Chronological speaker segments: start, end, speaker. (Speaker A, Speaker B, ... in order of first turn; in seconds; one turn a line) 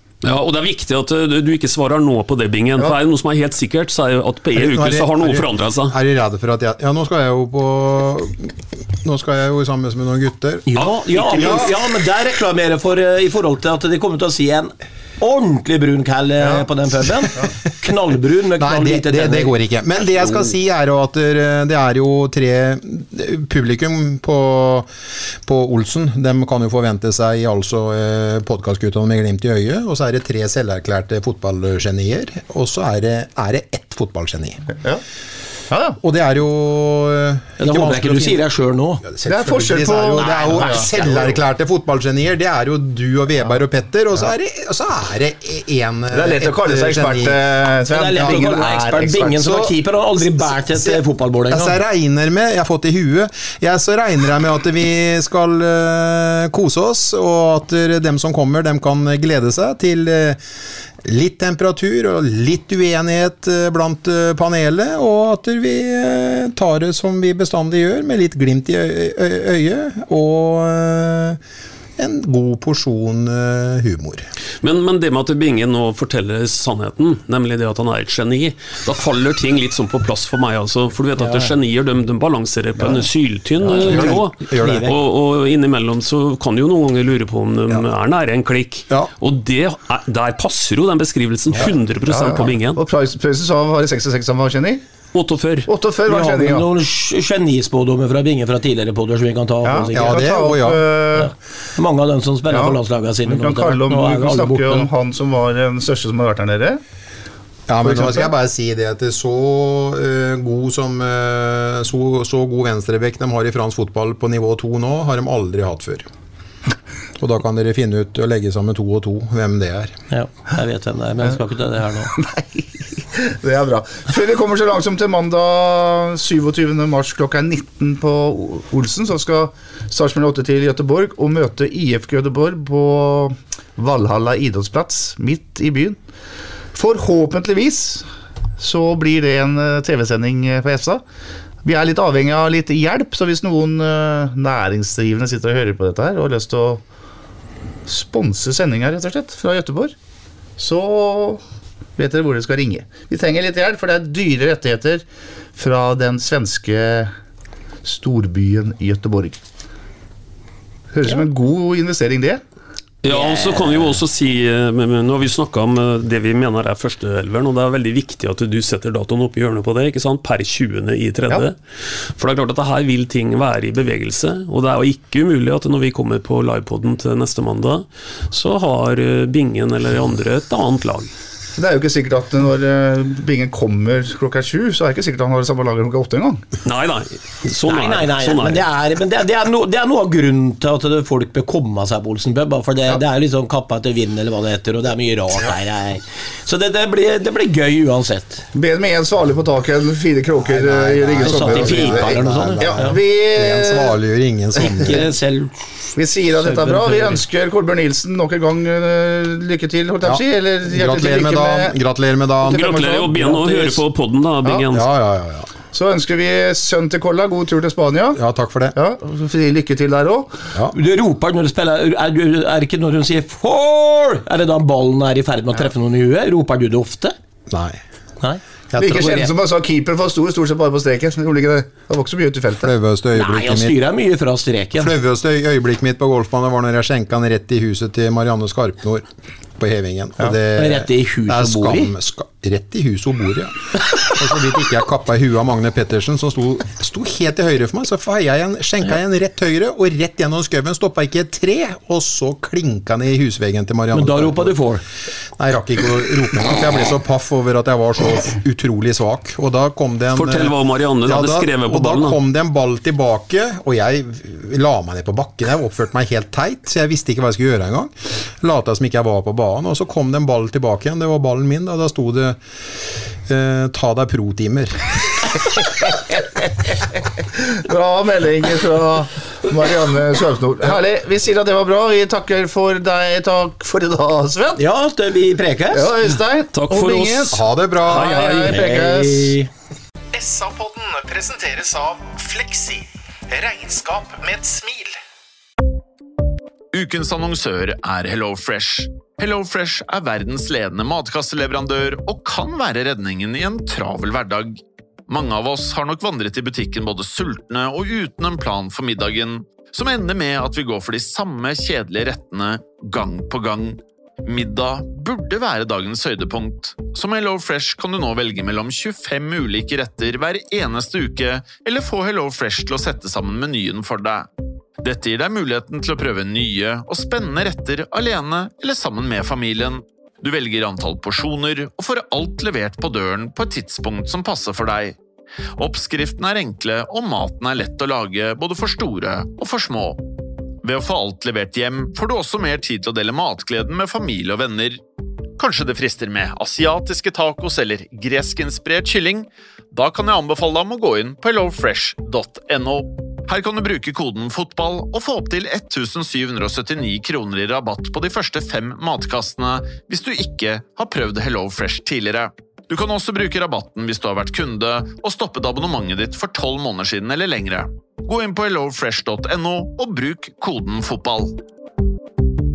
Speaker A: 0.2-6.0
Speaker B: 4.5-11.7
Speaker C: 10.7-19.5
Speaker D: 16.4-16.6
Speaker B: 18.6-24.9
Speaker B: 25.4-34.6
Speaker D: 35.7-36.0
Speaker B: 36.0-38.4
Speaker C: 37.6-39.0
Speaker B: 39.0-47.4
Speaker D: 39.2-40.9
Speaker C: 40.2-41.4
Speaker D: 46.1-49.5
Speaker C: 47.9-51.8
Speaker B: 48.1-49.7
Speaker B: 50.7-60.4
Speaker B: 61.0-71.4
Speaker B: 72.0-74.3
Speaker A: 74.6-92.8
Speaker C: 81.2-81.5
Speaker B: 83.6-84.9
Speaker C: 83.7-84.9
Speaker D: 92.1-94.8
Speaker A: 95.1-95.7
Speaker D: 95.7-96.6
Speaker C: 96.1-100.2
Speaker D: 99.6-101.3
Speaker B: 99.8-100.8
Speaker C: 101.1-104.9
Speaker D: 102.5-106.8
Speaker B: 107.7-116.1
Speaker D: 107.8-108.3
Speaker B: 117.2-120.0
Speaker C: 120.1-122.1
Speaker D: 122.1-136.0
Speaker D: 136.7-138.1
Speaker D: 138.6-141.0
Speaker D: 141.6-146.8
Speaker D: 147.8-149.9
Speaker D: 150.6-151.4
Speaker D: 151.9-157.1
Speaker D: 157.8-159.4
Speaker D: 160.9-162.4
Speaker A: 163.0-181.1
Speaker C: 163.1-163.9
Speaker D: 181.6-186.4
Speaker A: 186.6-188.6
Speaker C: 187.7-198.4
Speaker D: 198.5-203.9
Speaker B: 200.4-205.0
Speaker C: 201.2-203.0
Speaker C: 204.6-207.2
Speaker D: 205.9-211.8
Speaker B: 210.0-212.8
Speaker D: 212.4-213.8
Speaker A: 212.4-214.8
Speaker B: 214.7-215.5
Speaker D: 215.7-218.2
Speaker B: 218.1-218.7
Speaker D: 218.7-220.4
Speaker C: 220.7-227.1
Speaker B: 227.5-227.8
Speaker C: 228.2-229.3
Speaker D: 228.8-232.7
Speaker B: 232.6-233.8
Speaker C: 233.2-234.9
Speaker B: 234.8-239.1
Speaker B: 239.6-254.6
Speaker C: 240.5-241.9
Speaker C: 253.9-254.8
Speaker B: 255.4-272.4
Speaker A: 260.1-262.2
Speaker B: 273.3-274.9
Speaker D: 277.5-284.6
Speaker C: 284.6-285.9
Speaker D: 285.7-289.3
Speaker A: 286.5-288.8
Speaker B: 287.3-288.2
Speaker C: 288.5-289.5
Speaker E: 290.1-295.0
Speaker F: 296.7-324.3
Speaker F: 324.8-335.0
Speaker F: 335.6-340.0
Speaker F: 340.6-344.8
Speaker F: 345.4-371.4